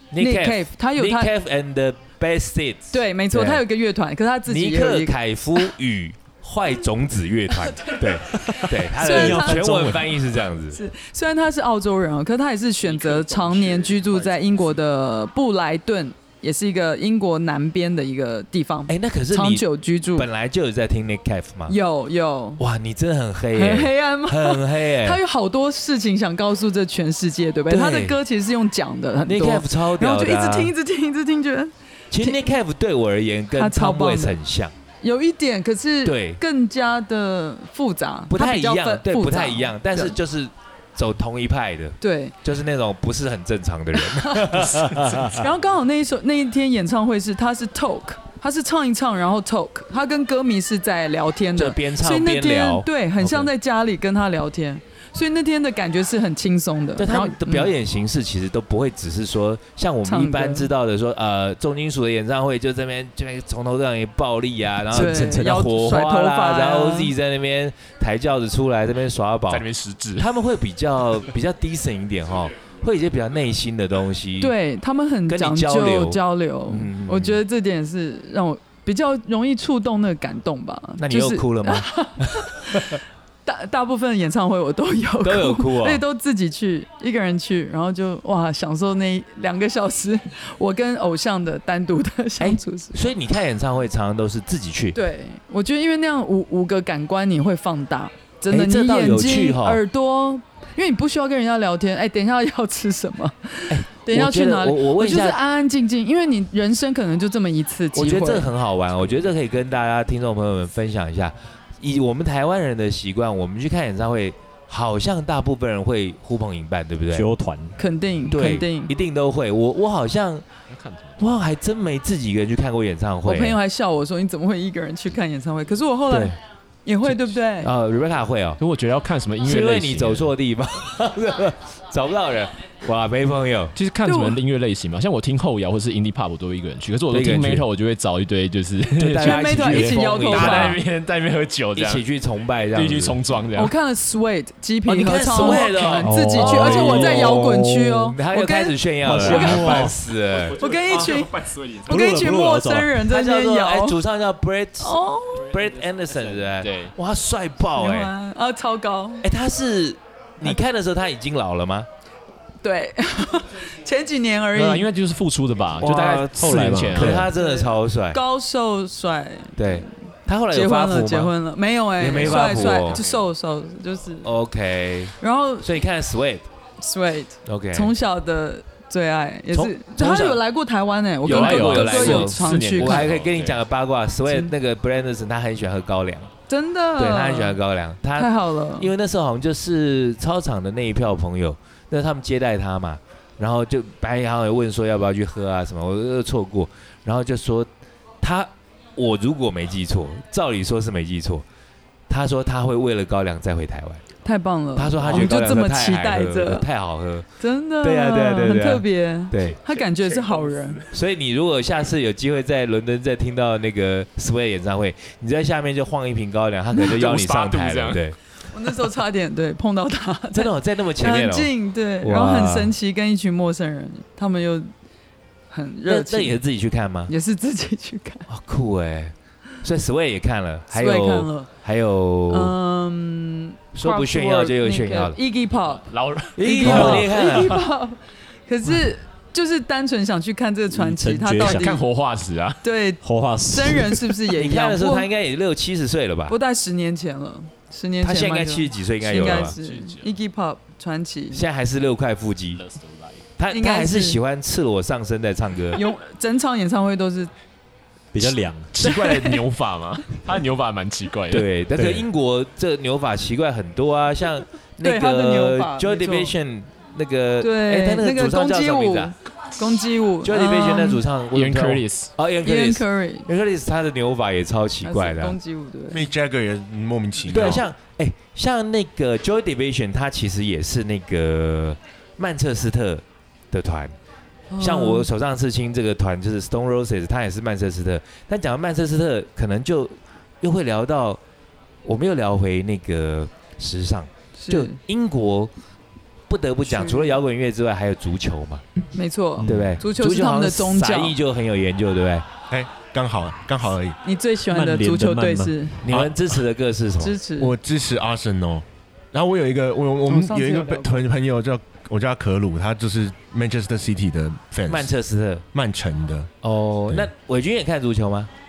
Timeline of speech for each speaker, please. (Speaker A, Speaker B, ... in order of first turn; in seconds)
Speaker A: 0.1-3.6, 4.5-10.8, 18.9-21.7, 22.6-25.2, 27.7-28.2, 29.2-30.7, 32.1-34.7, 36.0-36.4, 38.3-45.5, 51.5-53.5, 57.0-74.5, 75.3-77.4, 81.0-83.0, 85.2-86.0, 92.4-95.0, 98.5-99.8, 103.7-105.4, 107.9-117.3, 118.3-120.5, 121.2-123.6, 127.6-128.6, 129.4-133.7, 137.1-137.7, 139.0-140.8, 141.7-143.2, 144.9-150.6, 153.1-158.1, 159.2-161.9, 165.8-168.2, 169.6-171.3, 172.0-173.0, 174.2-176.5, 177.4-177.9, 179.5-180.4, 181.2-186.3, 187.0-197.7, 198.2-201.4, 202.1-204.0, 204.8-207.3, 207.8-209.6, 210.9-218.2, 220.3-222.7, 225.9-227.1, 228.3-232.5, 233.7-235.2, 236.4-237.7, 244.3-246.4, 248.0-249.5, 251.3-252.6, 253.4-255.8, 261.3-269.1, 270.2-275.4, 277.3-283.9, 284.6-291.2, 291.8-295.5, 296.3-298.6, 299.4-302.2, 305.8-307.1, 314.7-315.4, 316.4-318.3
Speaker B: 0.2-1.3, 2.9-5.7, 8.6-9.8, 10.7-20.3, 21.7-22.6, 23.5-32.4, 33.5-34.4, 35.0-40.1, 42.0-42.3, 44.0-44.6, 45.2-57.7, 60.0-60.7, 64.9-67.1, 74.4-93.0, 94.9-108.5, 117.8-118.9, 123.2-126.3, 126.8-127.7, 134.0-134.4, 139.2-140.8, 143.5-149.9, 150.6-154.0, 154.8-155.5, 157.8-159.2, 162.6-164.9, 167.2-169.9, 170.5-174.3, 175.2-175.7, 176.8-183.1, 184.2-184.5, 186.5-187.6, 188.2-188.9, 204.2-206.6, 207.4-210.8, 218.5-224.7, 225.5-226.4, 227.1-228.2, 230.7-231.5, 232.3-235.9, 236.5-241.8, 242.6-245.1, 246.3-251.4, 253.5-254.2, 255.7-257.3, 258.8-259.4, 264.8-266.3, 267.4-271.0, 272.4-273.3, 274.8-276.0, 284.5-285.1, 294.4-294.8, 296.6-297.2, 298.9-301.1, 304.0-305.8, 307.0-307.5, 310.1-311.0
Speaker C: 9.1-10.0, 117.1-117.7, 149.0-149.9, 151.9-153.0, 165.8-167.2, 240.7-241.8, 243.0-244.0, 258.1-258.7, 299.4-299.8, 304.5-305.6
Speaker D: 12.9-14.7, 65.0-65.6, 69.5-70.3, 120.7-121.2, 128.6-130.3, 133.7-142.0, 142.7-143.7, 146.4-147.4, 150.4-152.2, 156.1-156.9, 164.5-167.3, 172.2-173.2, 181.2-183.6, 209.7-210.7, 216.8-218.1, 235.8-237.5, 241.4-242.6, 249.2-250.1, 252.5-253.2, 258.7-261.9, 271.3-272.1
Speaker E: 275.9-277.6, 302.5-304.0, 305.9-306.1, 307.4-314.9, 315.5-316.3